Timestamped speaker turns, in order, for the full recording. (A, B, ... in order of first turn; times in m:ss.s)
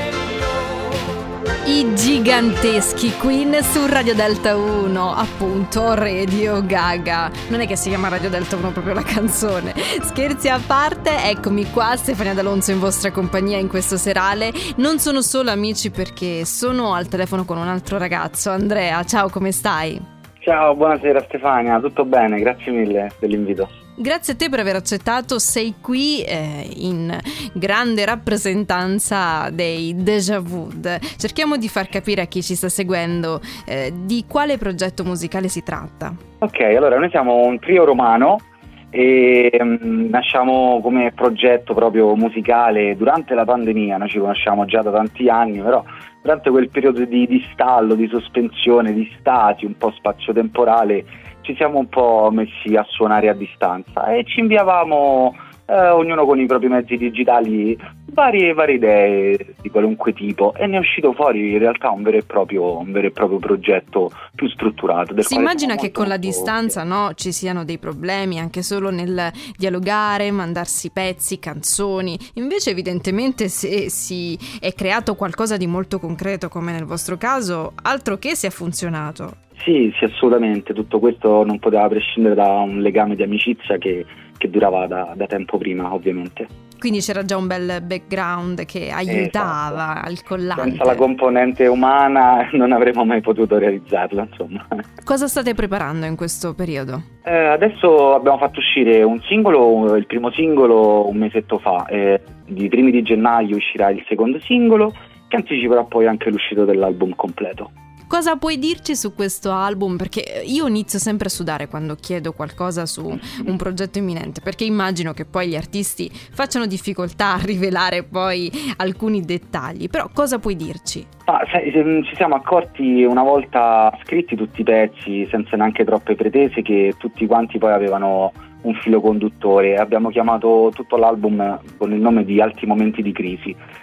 0:01.6-0:20.0 A
0:20.4-0:23.7 B
0:24.0-0:36.2 A
0:36.4-1:06.7 B
1:05.2-1:19.4 A
1:19.6-1:26.5 B
1:26.8-1:31.0 A
1:29.1-1:29.8 B
1:30.6-1:34.8 B
1:35.0-1:37.0 A
1:37.2-1:47.7 B
1:48.1-2:01.1 A
1:53.1-1:53.5 B
2:01.3-2:13.6 B